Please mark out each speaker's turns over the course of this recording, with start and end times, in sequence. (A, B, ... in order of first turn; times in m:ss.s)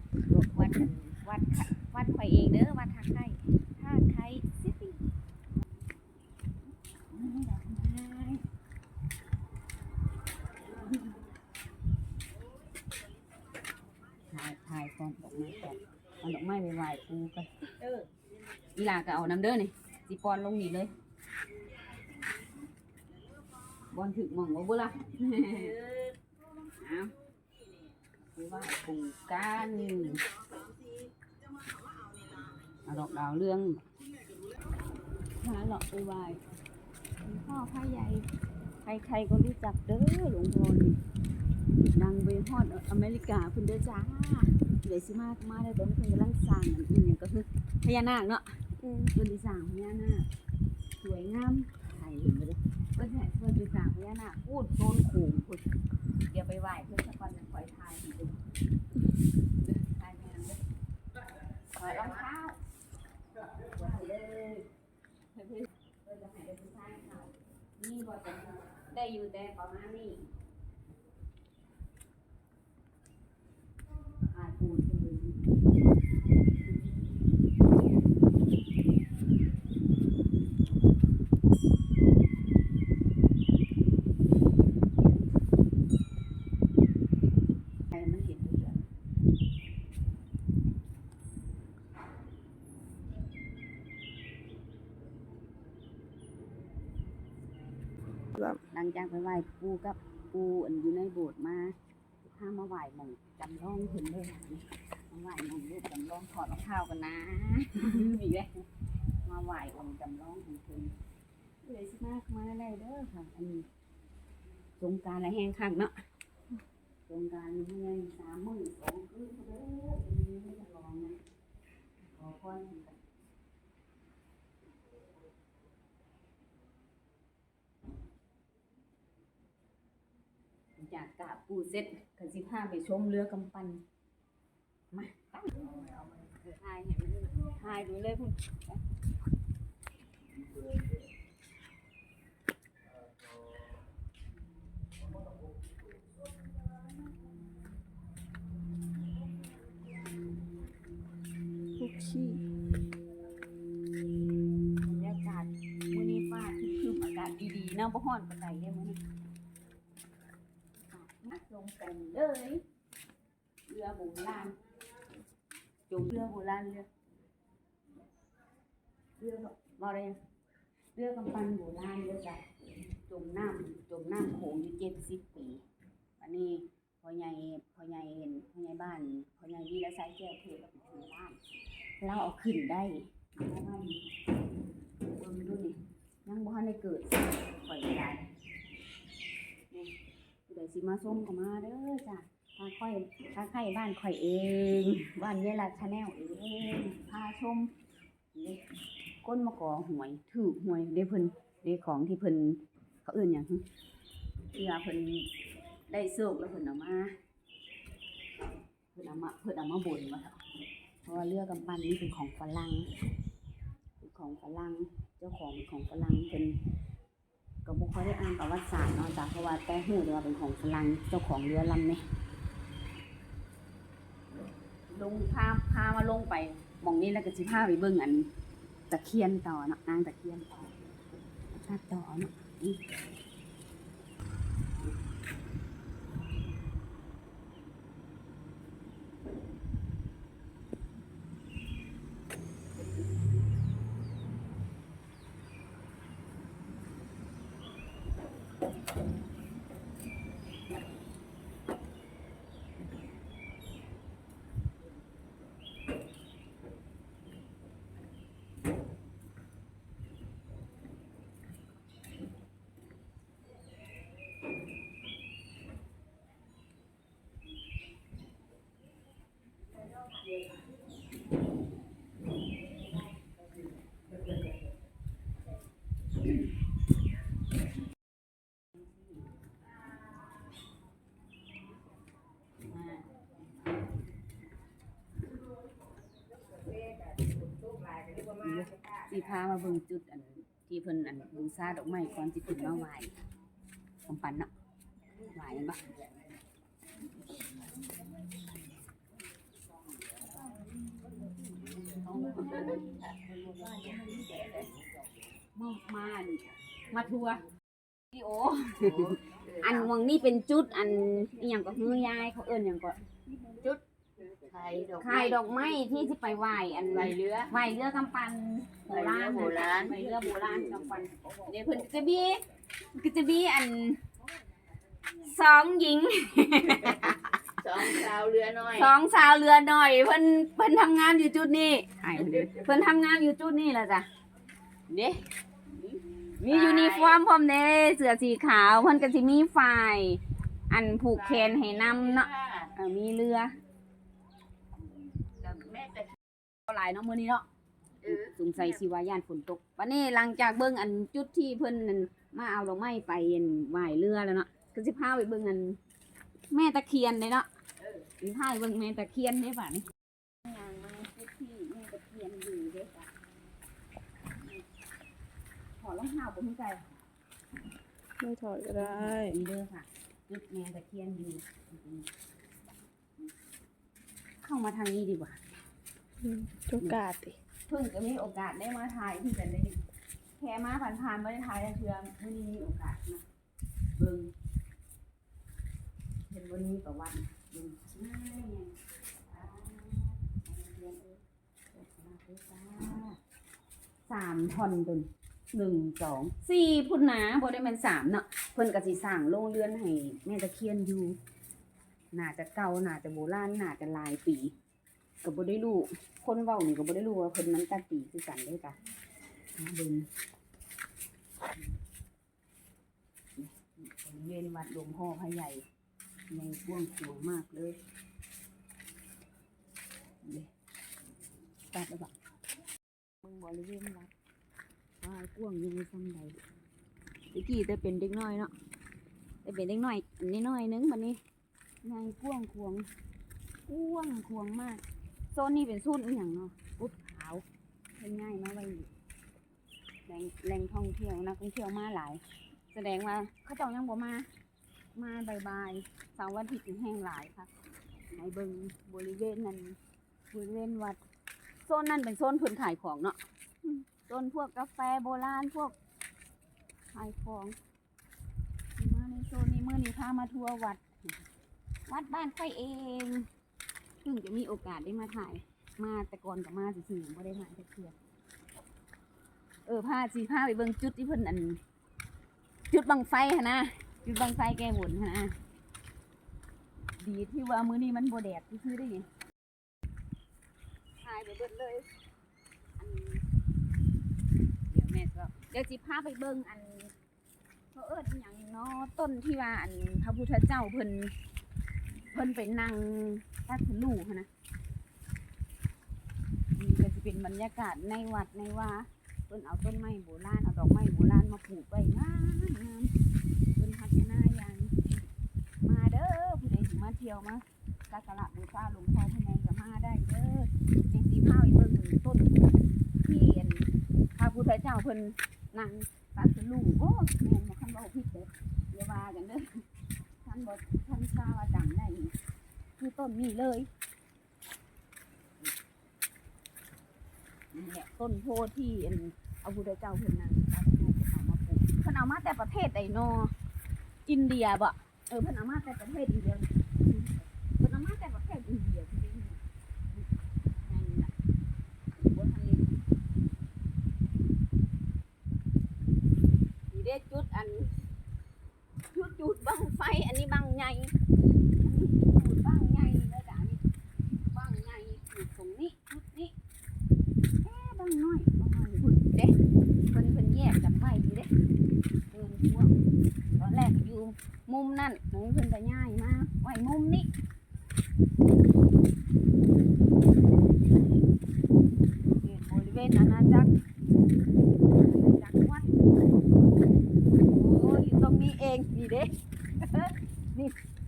0:00.3-0:05.0 A
0:07.1-0:08.4 A
0:10.7-0:11.1 A
0:14.3-0:18.0 A
0:18.7-0:20.9 A
0:23.9-0:25.7 A
0:25.6-0:26.1 B
0:26.7-0:27.1 A
0:28.3-0:30.3 A
0:32.8-0:33.8 A
0:35.4-0:36.4 A
0:37.2-0:38.3 A
0:38.8-0:41.0 A
0:41.8-0:50.3 A
0:48.8-0:49.1 C
0:51.0-0:55.7 A
0:56.3-0:58.4 A
0:59.6-1:00.6 A
1:01.7-1:02.6 A
1:03.6-1:04.7 A
1:05.3-1:10.3 A
1:14.2-1:15.4 A
1:27.9-1:28.8 A
1:38.5-1:48.6 A
1:49.2-1:51.0 A
1:51.6-1:53.7 A
1:54.8-1:55.9 A
1:57.1-2:01.2 A
2:02.1-2:03.0 A
2:10.8-2:13.8 A
2:14.9-2:18.8 A
2:31.8-2:32.4 C
2:34.8-2:39.0 A
2:40.9-2:42.6 A
2:43.7-2:44.6 A
2:45.9-2:46.9 A
2:49.2-2:50.2 A
2:50.9-2:52.4 A
2:53.0-2:55.6 A
2:56.2-3:01.4 A
3:02.0-3:04.0 A
3:05.2-3:08.3 A
3:10.5-3:17.7 A
3:18.3-3:18.6 A
3:19.2-3:23.6 A
3:24.5-3:25.3 A
3:25.9-3:27.1 A
3:28.9-3:30.4 A
3:31.0-3:32.9 A
3:34.0-3:36.6 A
3:37.6-3:42.0 A
3:44.9-3:48.3 A
3:48.9-3:50.7 A
3:51.6-3:52.8 A
4:38.7-4:39.2 A
4:42.7-4:43.2 A
4:48.2-4:53.1 A
4:54.0-4:54.5 A
4:55.2-4:55.9 A
5:01.6-5:03.0 A
5:02.4-5:02.8 B
5:03.8-5:04.4 A
5:04.2-5:04.6 B
5:05.5-5:07.5 A
5:08.1-5:13.0 A
5:09.3-5:09.9 B
5:13.6-5:15.5 B
5:15.0-5:22.4 A
5:16.9-5:17.5 B
5:18.9-5:20.3 B
5:22.9-5:24.0 A
5:25.2-5:27.2 A
5:26.9-5:28.9 B
5:27.7-5:28.0 A
5:28.7-5:34.1 A
5:32.2-5:32.6 B
5:34.9-5:35.2 A
5:36.4-5:43.5 A
5:36.4-5:37.2 B
5:41.2-5:42.7 B
5:45.4-5:46.1 B
5:46.6-5:47.4 A
5:48.0-5:48.3 B
5:48.0-5:55.8 A
5:56.5-5:57.5 A
5:58.0-5:59.9 A
6:00.4-6:03.1 A
6:04.3-6:04.6 A
6:05.8-6:07.0 A
6:08.2-6:09.4 C
6:08.8-6:12.1 A
6:14.4-6:15.6 A
6:16.2-6:17.4 C
6:17.7-6:19.8 A
6:20.4-6:23.2 A
6:24.0-6:24.3 A
6:26.3-6:33.2 A
6:34.1-6:41.2 A
6:42.1-6:44.5 A
6:45.2-6:48.8 A
6:49.6-6:50.1 A
6:53.4-6:55.6 A
6:56.3-6:57.8 A
7:00.2-7:00.5 A
7:01.7-7:02.1 A
7:03.2-7:04.1 A
7:05.0-7:06.4 A
7:07.3-7:08.5 A
7:09.4-7:11.2 A
7:11.8-7:12.9 A
7:13.7-7:17.4 A
7:18.0-7:18.9 A
7:20.1-7:24.3 A
7:24.9-7:27.5 A
7:28.1-7:29.8 A
7:30.3-7:31.0 A
7:31.6-7:35.8 A
7:36.9-7:37.6 A
7:38.8-7:40.8 A
7:41.9-7:43.2 A
7:44.0-7:47.9 A
7:49.6-7:51.6 A
7:52.7-7:55.4 A
7:57.0-7:59.1 A
8:01.0-8:01.9 A
8:02.8-8:03.2 A
8:04.7-8:06.9 A
8:07.7-8:11.1 A
8:12.1-8:14.3 A
8:16.6-8:22.9 A
8:23.6-8:25.1 A
8:25.6-8:32.4 A
8:33.0-8:39.6 A
8:40.2-8:42.1 A
8:42.8-8:43.7 A
8:47.5-8:53.3 A
8:54.0-9:01.1 A
9:02.0-9:02.7 A
9:06.7-9:07.7 A
9:08.9-9:10.9 A
9:11.6-9:13.6 A
9:14.1-9:16.3 A
9:17.4-9:19.4 A
9:19.9-9:21.3 A
9:22.1-9:22.8 A
9:23.3-9:27.1 A
9:32.1-9:33.5 A
9:34.7-9:35.7 A
9:37.3-9:40.6 A